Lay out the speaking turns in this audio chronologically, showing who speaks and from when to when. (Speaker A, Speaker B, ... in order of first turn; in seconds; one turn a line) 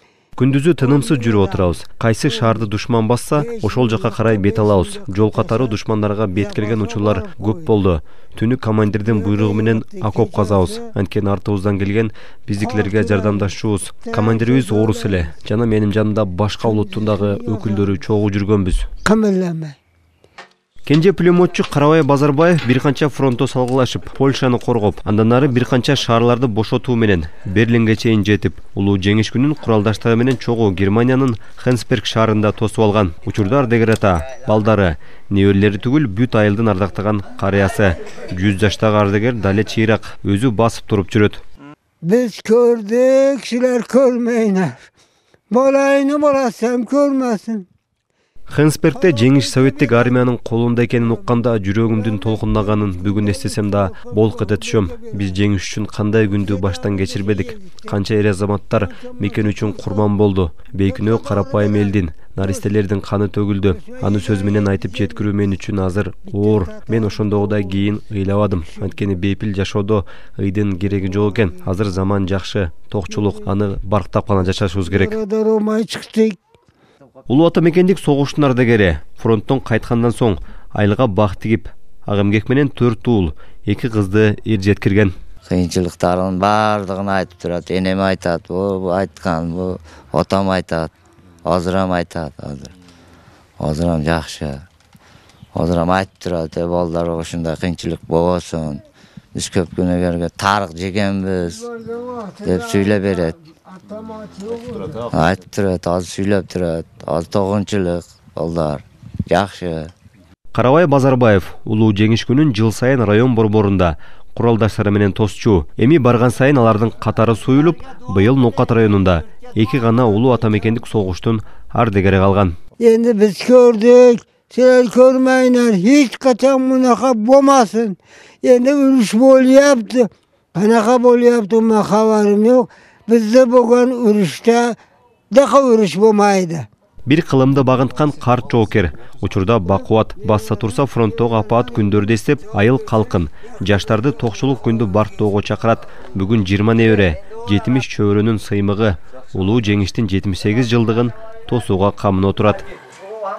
Speaker A: 0.4-18.9
Speaker B: 0.8-2.7
Speaker B: 3.3-5.8
Speaker B: 6.3-7.7
Speaker B: 9.0-10.9
Speaker B: 12.6-15.5
Speaker B: 16.6-18.0
Speaker B: 19.0-19.8
Speaker A: 20.9-41.4
Speaker B: 42.0-44.9
Speaker B: 45.5-47.7
Speaker A: 48.5-75.2
Speaker B: 48.9-55.4
Speaker B: 56.3-58.0
Speaker B: 58.7-60.1
Speaker B: 60.8-62.9
Speaker B: 63.6-65.5
Speaker B: 66.3-69.0
Speaker B: 70.9-71.7
Speaker B: 73.1-73.5
Speaker B: 74.8-76.4
Speaker A: 77.3-85.1
Speaker C: 85.4-90.9
Speaker C: 91.4-92.7
Speaker C: 93.6-94.6
Speaker C: 95.5-101.6
Speaker B: 101.4-105.1
Speaker C: 102.4-103.3
Speaker C: 105.1-109.9
Speaker A: 110.5-122.6
Speaker B: 122.8-134.8
Speaker B: 135.3-136.7
Speaker A: 137.1-152.7
Speaker B: 139.7-144.5